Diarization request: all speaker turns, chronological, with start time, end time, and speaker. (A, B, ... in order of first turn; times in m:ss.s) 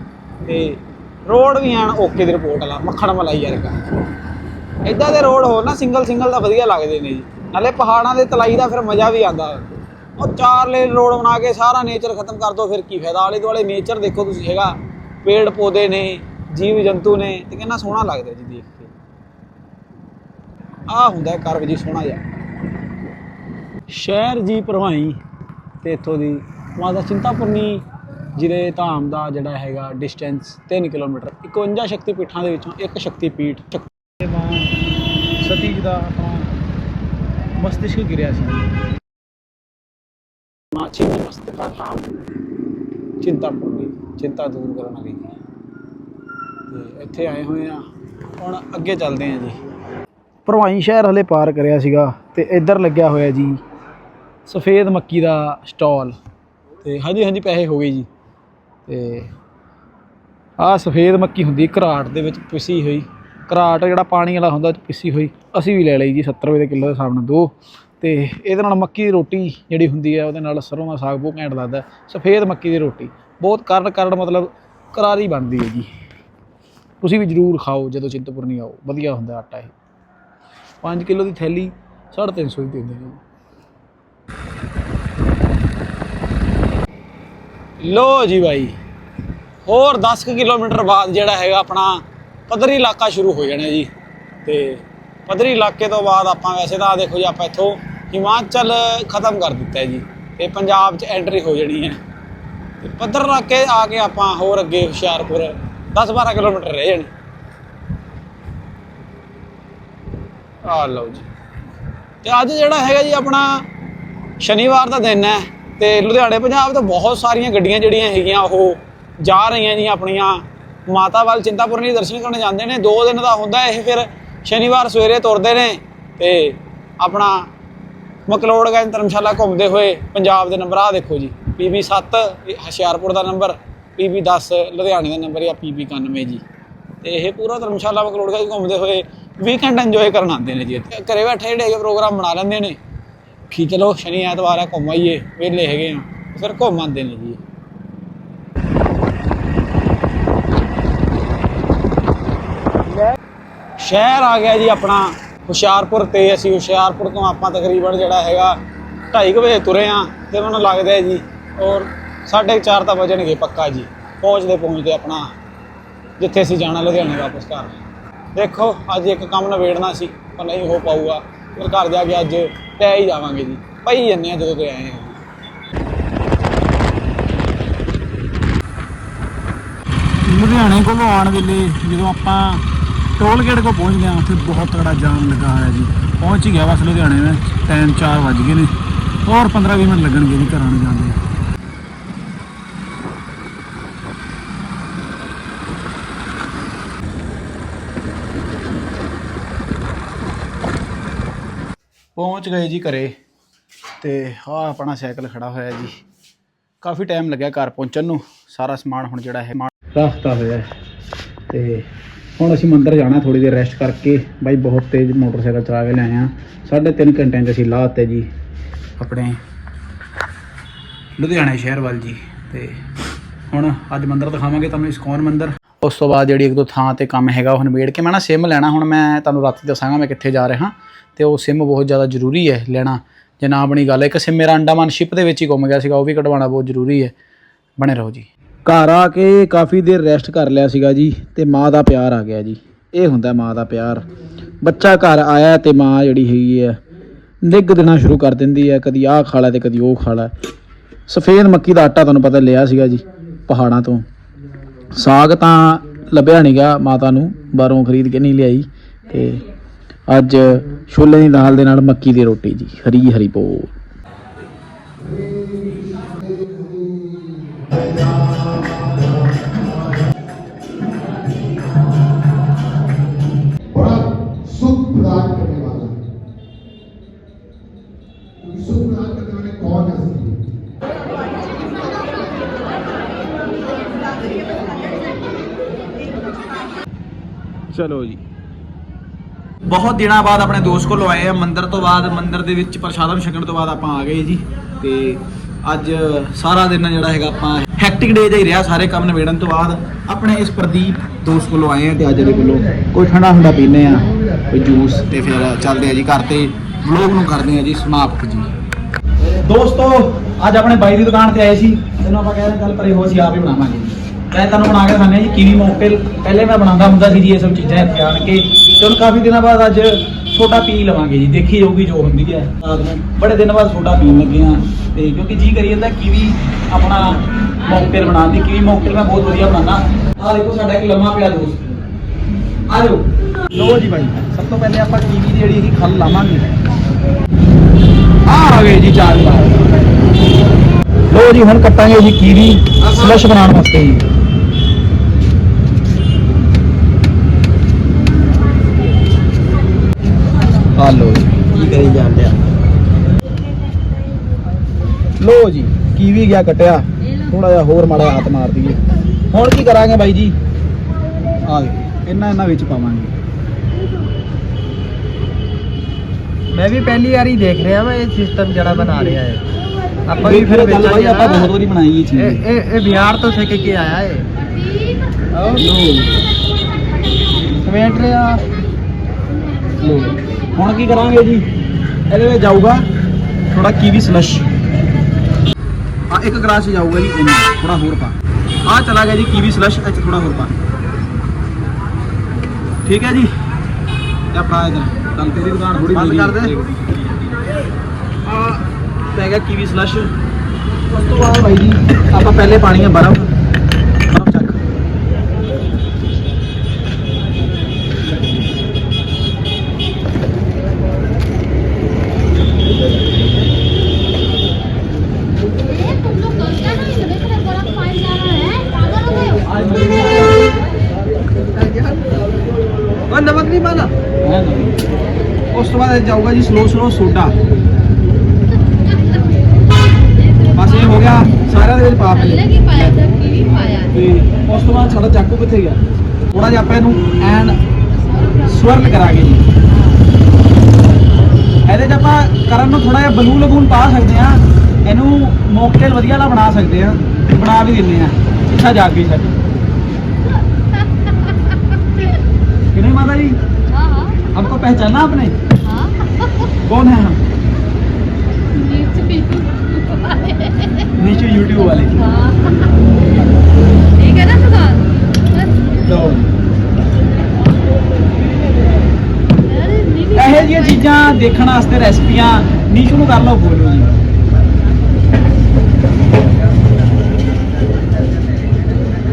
0:00.4-0:04.0 A
0:04.8-0:18.9 A
0:20.9-0:22.2 A
0:23.9-0:25.2 A
0:25.8-0:34.7 A
0:35.4-0:36.5 A
0:37.6-0:38.7 A
0:40.7-0:42.1 A
0:43.2-0:45.3 A
0:46.7-0:47.9 A
0:48.4-0:49.6 A
0:50.5-0:53.6 A
0:54.5-0:56.2 A
0:56.8-0:58.1 A
0:58.9-0:59.3 A
1:00.6-1:15.9 A
1:17.0-1:19.8 A
1:20.8-1:23.2 A
1:27.8-1:28.8 A
1:29.6-1:33.9 A
1:34.4-1:42.0 A
1:42.8-1:47.1 A
1:50.7-1:51.3 A
1:52.2-1:53.7 A
1:54.4-2:07.5 A
2:08.3-2:16.4 A
2:17.0-2:22.8 A
2:23.5-2:27.4 A
2:33.8-2:38.6 A
2:39.1-2:45.3 A
2:46.2-2:47.7 A
2:48.3-2:55.2 A
3:00.2-3:02.6 A
3:03.2-3:08.7 A
3:09.2-3:11.2 A
3:22.2-3:23.1 A
3:24.0-3:26.0 A
3:26.8-3:30.7 A
3:31.5-3:38.3 A
3:39.0-3:39.4 A
3:41.2-3:42.8 A
3:43.5-3:57.1 A
3:57.8-4:04.1 A
4:04.6-4:06.8 A
4:07.4-4:10.3 A
4:11.1-4:14.0 A
4:14.9-4:19.4 A
4:20.1-4:23.7 A
4:33.8-4:35.9 B
4:38.4-4:40.3 B
4:47.7-4:48.2 A
4:49.7-5:08.5 A
5:09.2-5:31.8 A
5:32.7-5:36.5 A
5:38.2-5:39.7 A
5:41.1-5:44.0 A
5:50.8-5:52.4 A
5:55.2-6:00.4 A
6:01.4-6:03.1 A
6:06.5-6:09.4 B
6:10.1-6:11.5 B
6:10.2-6:12.5 A
6:12.2-6:14.3 B
6:15.3-6:15.6 B
6:15.5-6:16.2 A
6:17.6-6:18.4 A
6:19.8-6:21.5 A
6:22.1-6:22.8 A
6:23.5-6:24.5 A
6:26.1-6:30.5 A
6:32.8-6:33.3 A
6:34.3-6:36.8 A
6:38.2-6:40.1 A
6:40.9-6:43.3 A
6:44.1-6:44.7 A
6:56.0-6:59.2 C
6:59.3-7:00.5 A
7:01.4-7:02.1 B
7:02.9-7:03.9 B
7:04.2-7:04.9 A
7:05.5-7:07.4 A
7:10.2-7:10.5 C
7:10.5-7:13.1 A
7:12.3-7:13.9 C
7:13.8-7:17.6 A
7:18.3-7:19.4 A
7:21.7-7:29.3 A
7:32.7-7:33.4 A
7:33.7-7:34.2 C
7:34.3-7:35.4 A
7:35.6-7:36.3 C
7:36.6-7:37.2 A
7:38.5-7:40.8 C
7:40.9-7:42.2 A
7:42.2-7:42.6 C
7:43.9-7:45.5 C
7:45.8-7:46.3 A
7:49.5-7:50.6 C
7:50.1-7:54.0 A